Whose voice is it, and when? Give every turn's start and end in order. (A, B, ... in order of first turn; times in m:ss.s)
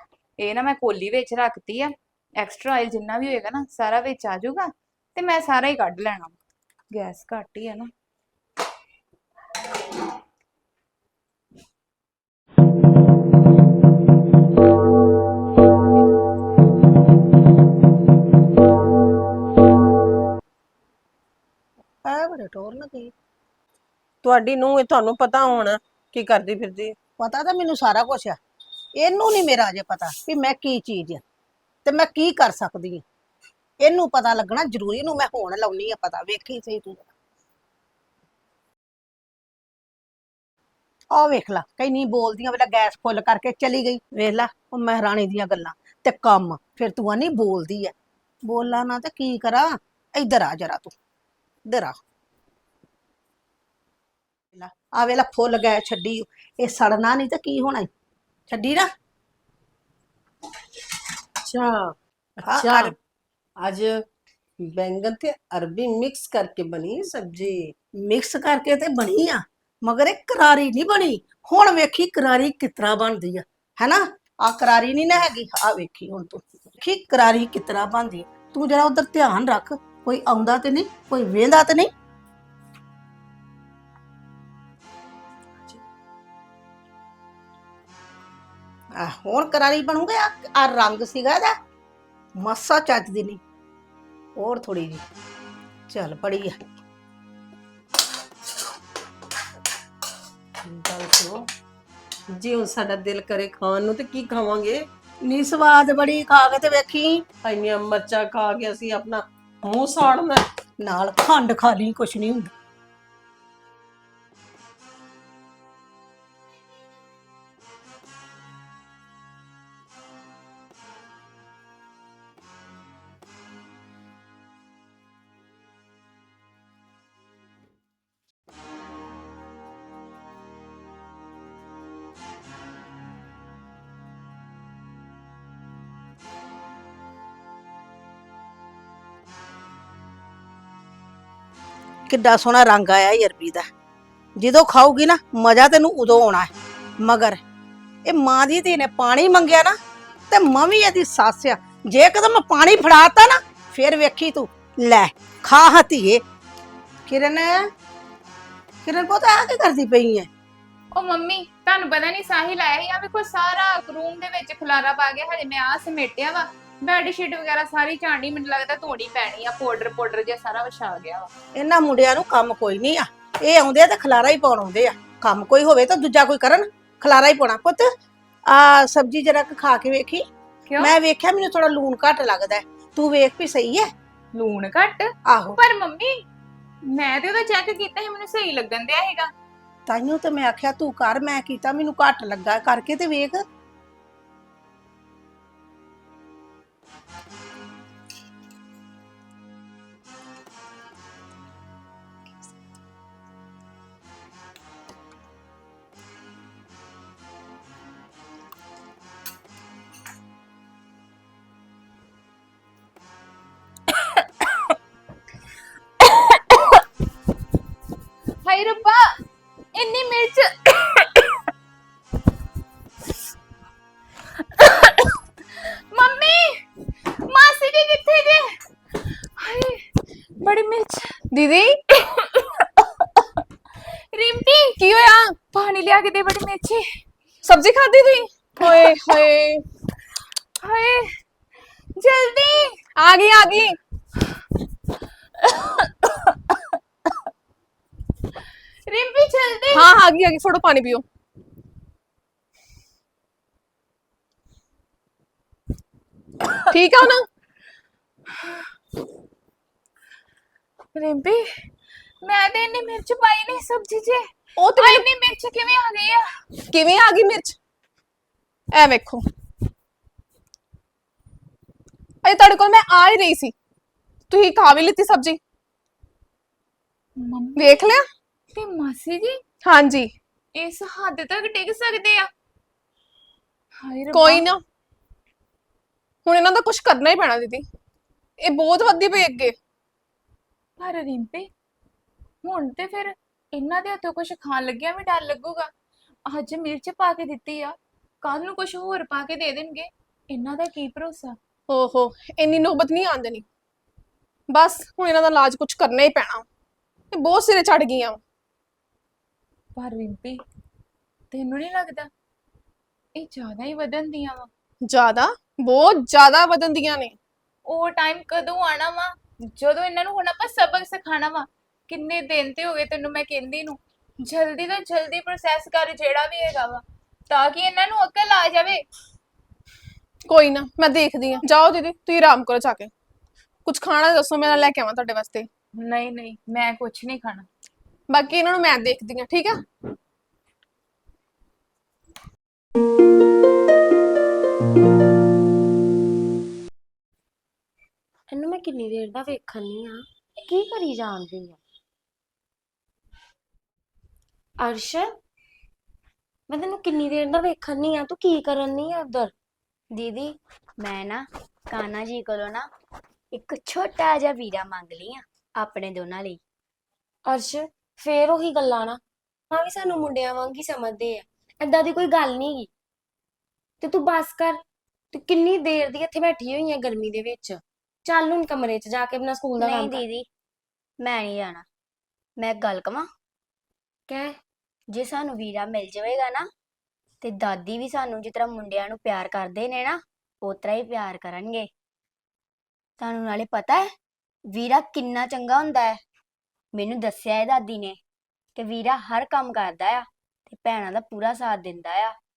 0:00.4-0:06.4 A
0:06.9-0:07.9 A
0:22.0-0:23.1 B
0:24.2-0:27.0 C
0:27.2-0:28.4 B
0:29.0-0:31.2 B
0:31.8-0:33.0 B
0:33.8-0:37.1 B
0:41.1-0:47.9 B
0:48.5-0:51.0 B
0:51.7-0:52.0 B
0:54.5-0:57.9 B
0:58.5-0:58.9 B
1:01.4-1:03.0 C
1:02.5-1:02.9 B
1:03.6-1:04.0 C
1:04.6-1:07.7 C
1:08.0-1:21.9 B
1:29.0-1:31.6 B
1:32.4-1:33.4 B
1:34.4-1:35.0 B
1:35.9-1:36.6 B
1:40.6-1:41.4 C
1:42.3-1:44.8 C
1:45.2-1:47.3 B
1:47.4-1:50.4 C
1:50.8-1:52.5 B
2:22.1-2:23.7 B
2:24.4-2:27.4 B
2:28.1-2:29.8 B
2:30.3-2:36.2 B
2:37.1-2:37.6 B
2:38.8-2:40.3 B
2:40.9-2:51.3 A
2:51.6-2:57.9 B
2:58.5-3:00.2 B
3:00.7-3:01.0 A
3:00.8-3:03.9 B
3:04.3-3:06.2 A
3:05.3-3:05.6 B
3:06.8-3:09.3 A
3:09.9-3:13.4 B
3:38.4-3:39.2 A
3:39.8-3:41.2 A
3:44.6-3:45.1 A
3:45.9-3:48.5 A
3:49.4-3:49.9 A
3:50.4-3:51.2 A
3:51.3-3:51.8 D
3:52.0-3:52.6 A
3:54.1-3:54.8 A
3:54.8-3:55.4 D
3:55.5-3:57.0 A
3:57.4-3:59.6 D
3:58.6-3:59.0 A
4:00.6-4:01.2 A
4:02.0-4:02.8 A
4:03.0-4:03.8 D
4:08.9-4:09.9 A
4:09.7-4:11.0 D
4:16.7-4:17.3 D
4:21.0-4:21.7 A
4:22.2-4:26.3 A
4:24.6-4:25.1 D
4:26.7-4:27.6 D
4:28.7-4:29.2 D
4:32.2-4:33.5 D
4:34.3-4:35.4 D
4:37.2-4:37.8 A
4:37.6-4:38.0 D
4:38.5-4:39.4 A
4:39.6-4:40.1 D
4:40.6-4:42.3 A
4:43.8-4:44.5 A
4:44.1-4:44.6 D
4:46.3-4:47.7 D
4:48.4-4:49.6 D
4:50.8-4:51.5 A
4:52.4-4:55.7 A
4:56.3-5:01.4 A
5:01.7-5:03.4 D
5:04.5-5:06.5 D
5:07.1-5:08.2 D
5:09.8-5:10.4 A
5:11.3-5:12.1 A
5:13.2-5:14.5 A
5:14.9-5:17.2 D
5:17.7-5:28.8 A
5:30.3-5:32.9 D
5:33.7-5:35.5 D
5:35.8-5:37.5 A
5:38.1-5:39.6 D
5:48.3-5:51.6 E
5:54.6-5:55.2 E
5:56.5-5:59.3 E
5:59.9-6:02.7 F
6:03.3-6:06.4 F
6:07.3-6:12.7 E
6:13.8-6:14.6 E
6:15.1-6:20.0 E
6:19.6-6:20.3 F
6:21.0-6:21.7 F
6:22.4-6:23.1 F
6:24.1-6:24.4 E
6:24.9-6:26.5 F
6:27.2-6:31.7 F
6:33.0-6:33.9 F
6:34.5-6:36.0 F
6:36.7-6:38.0 F
6:38.6-6:42.2 F